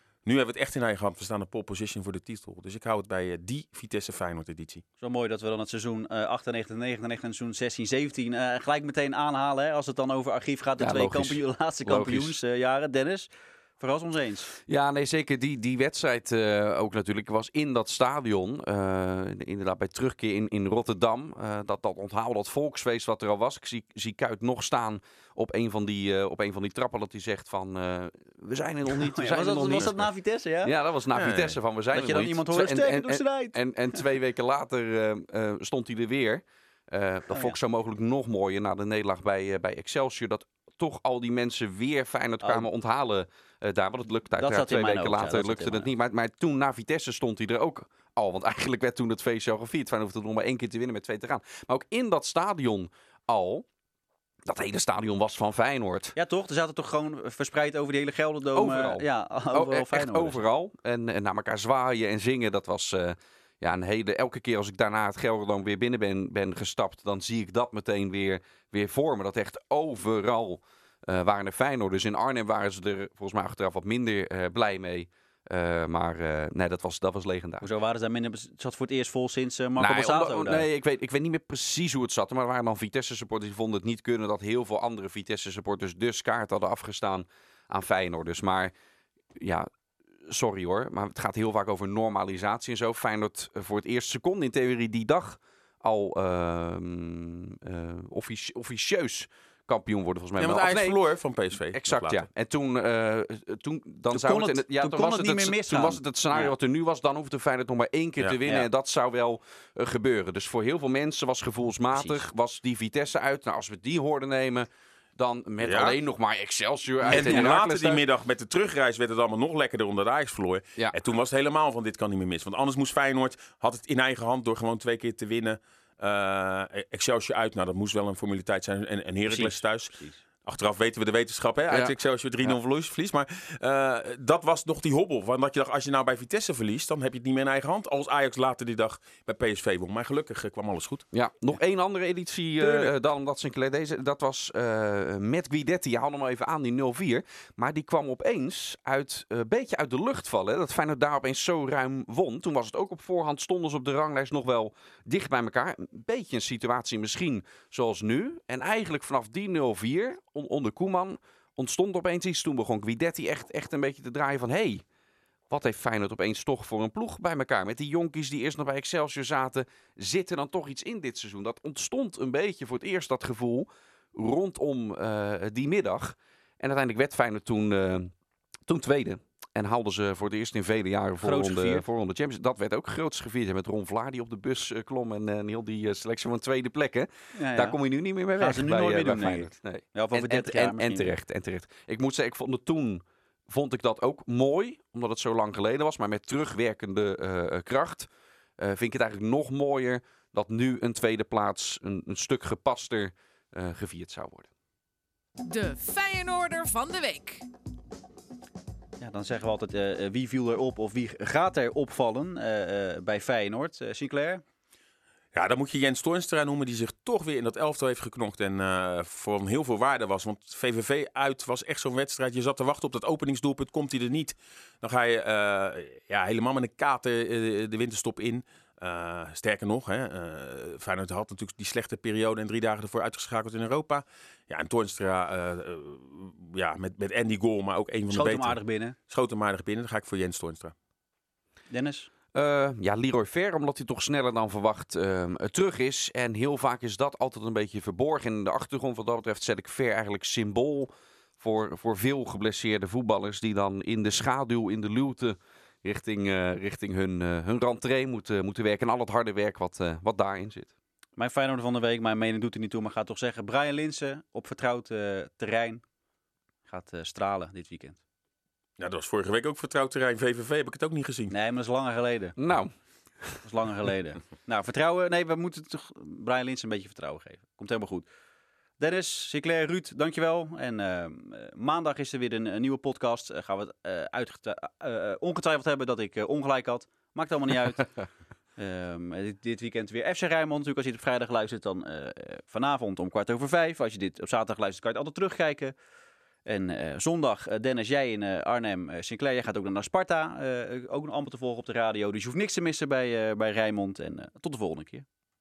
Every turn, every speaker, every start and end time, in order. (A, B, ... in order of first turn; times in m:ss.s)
0:00.2-0:04.8 A
0:05.0-0:14.5 B
0:10.8-0:12.4 C
0:14.7-0:30.1 C
0:28.9-0:30.7 B
0:30.6-0:53.6 C
0:31.1-0:31.6 A
0:31.9-0:33.6 B
0:44.3-0:45.9 B
0:54.4-0:56.1 C
0:56.2-1:00.4 B
0:58.5-1:17.6 C
1:17.6-1:20.6 B
1:19.8-1:28.7 C
1:29.3-1:29.7 C
1:30.3-1:41.0 C
1:40.4-1:42.2 A
1:41.7-1:58.0 C
1:44.1-1:46.5 B
1:55.6-1:56.0 A
1:57.0-2:21.0 A
1:57.1-1:57.4 B
2:09.3-2:10.2 B
2:11.7-2:12.6 C
2:21.1-2:44.8 C
2:22.6-2:22.9 A
2:45.5-2:58.1 C
2:58.7-3:18.1 C
3:01.2-3:01.8 B
3:07.4-3:07.8 B
3:08.4-3:11.1 B
3:18.6-3:24.5 C
3:25.4-3:27.5 D
3:29.0-3:34.4 B
3:35.3-4:00.7 A
3:58.1-3:58.9 B
4:01.7-4:02.1 B
4:02.3-4:20.7 C
4:21.2-4:25.8 B
4:26.7-4:28.0 B
4:28.8-4:31.3 A
4:31.3-4:32.4 B
4:32.4-4:33.4 C
4:33.4-4:38.1 B
4:38.8-4:55.7 B
4:56.4-5:05.0 B